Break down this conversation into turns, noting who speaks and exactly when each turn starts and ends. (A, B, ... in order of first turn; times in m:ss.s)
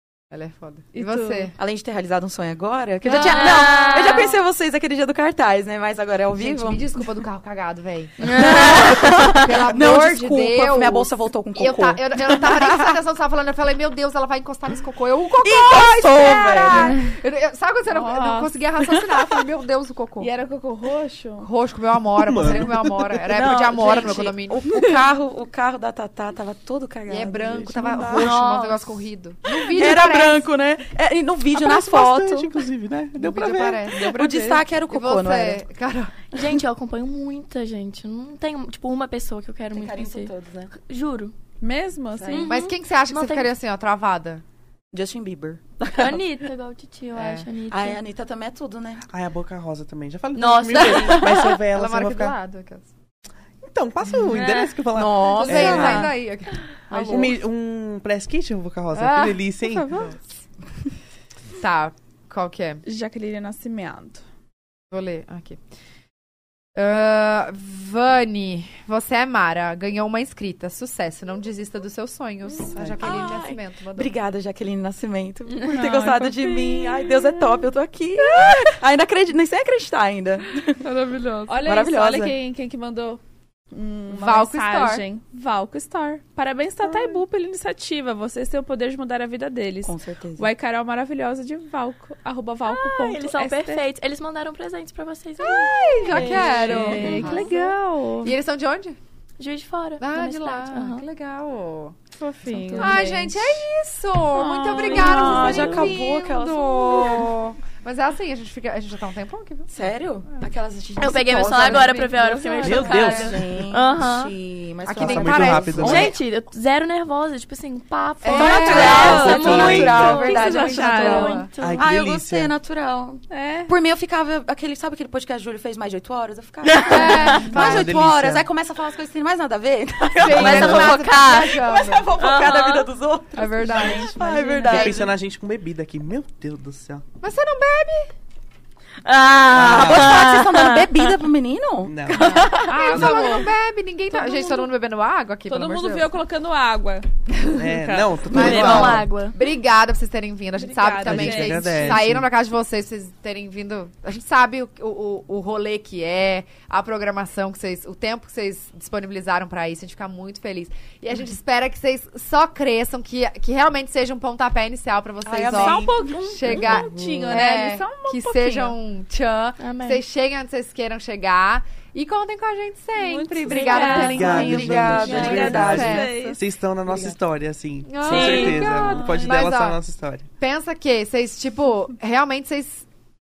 0:00.3-0:01.5 A
0:00.9-0:01.5 B
0:01.6-0:07.1 C
0:03.0-0:04.4 D
0:06.4-0:20.3 A
0:08.2-0:09.3 D
0:08.2-0:13.0 C
0:15.4-0:17.1 C
0:17.9-0:18.6 B
0:20.2-0:21.5 B
0:21.4-0:25.0 A
0:22.2-0:23.2 E
0:23.3-0:28.3 C
0:27.1-0:30.4 A
0:28.1-0:28.9 D
0:29.6-0:32.5 C
0:31.6-0:34.0 E
0:33.2-0:36.2 A
0:33.9-0:35.6 C
0:36.3-0:41.3 D
0:39.7-0:40.7 C
0:41.6-0:42.6 B
0:42.2-0:42.5 C
0:42.3-0:43.5 D
0:42.5-0:44.4 A
0:44.9-0:46.2 C
0:45.9-0:48.0 D
0:47.2-0:47.5 A
0:47.7-0:49.1 C
0:49.1-0:52.4 E
0:50.4-0:51.3 D
0:50.8-0:51.4 C
0:51.7-0:52.9 A
0:53.6-0:56.1 E
0:54.3-0:54.8 D
0:54.9-0:56.2 C
0:55.2-0:57.3 A
0:56.9-0:57.4 D
0:56.9-1:00.0 E
0:59.0-0:59.5 A
0:59.6-1:00.2 B
1:01.6-1:02.8 A
1:02.8-1:04.2 B
1:04.9-1:05.6 A
1:06.8-1:14.1 A
1:12.8-1:13.1 E
1:12.8-1:20.9 C
1:15.6-1:17.6 B
1:18.3-1:18.7 A
1:20.8-1:21.7 A
1:21.5-1:23.2 B
1:21.6-1:22.3 C
1:23.7-1:33.8 B
1:24.1-1:25.0 A
1:29.8-1:30.5 C
1:32.6-1:37.6 D
1:35.4-1:37.6 A
1:36.0-1:38.3 B
1:36.1-1:36.9 C
1:38.2-1:39.0 A
1:39.4-1:41.0 D
1:40.0-1:42.0 A
1:42.1-1:43.6 B
1:42.5-1:43.1 D
1:42.8-1:49.7 A
1:44.3-1:45.9 B
1:44.8-1:47.4 C
1:44.9-1:45.7 D
1:49.7-1:56.1 C
1:51.0-1:54.3 D
1:51.1-1:53.2 A
1:52.6-1:53.5 E
1:54.9-1:56.1 A
1:54.9-1:56.1 E
1:55.8-2:01.9 D
1:58.2-2:01.5 A
1:58.2-2:15.1 C
1:58.5-2:01.5 B
1:58.8-2:00.2 E
2:01.6-2:02.5 E
2:03.3-2:03.7 B
2:06.6-2:07.4 D
2:06.9-2:07.9 A
2:07.5-2:08.5 E
2:10.2-2:12.1 A
2:10.3-2:11.6 D
2:10.3-2:11.0 E
2:12.2-2:12.9 D
2:13.3-2:14.2 A
2:13.7-2:14.9 B
2:14.7-2:17.0 E
2:14.7-2:15.0 A
2:17.2-2:18.1 A
2:19.0-2:21.1 D
2:19.5-2:20.2 E
2:19.5-2:22.7 C
2:21.8-2:22.3 E
2:22.1-2:23.3 D
2:22.2-2:26.2 A
2:22.8-2:23.5 B
2:24.1-2:24.7 B
2:25.5-2:27.1 B
2:27.6-2:29.1 E
2:27.6-2:28.6 B
2:28.3-2:56.4 A
2:28.3-2:29.4 D
2:30.6-2:32.0 B
2:31.0-2:32.3 E
2:45.2-2:46.0 C
2:45.5-2:48.8 B
2:46.6-2:47.4 E
2:49.6-2:50.0 D
2:53.0-2:56.4 B
2:53.4-2:54.3 D
2:54.0-2:56.1 C
2:54.1-3:00.3 E
2:57.9-2:59.8 A
2:58.0-2:59.4 B
2:58.1-2:58.7 D
3:00.4-3:02.9 A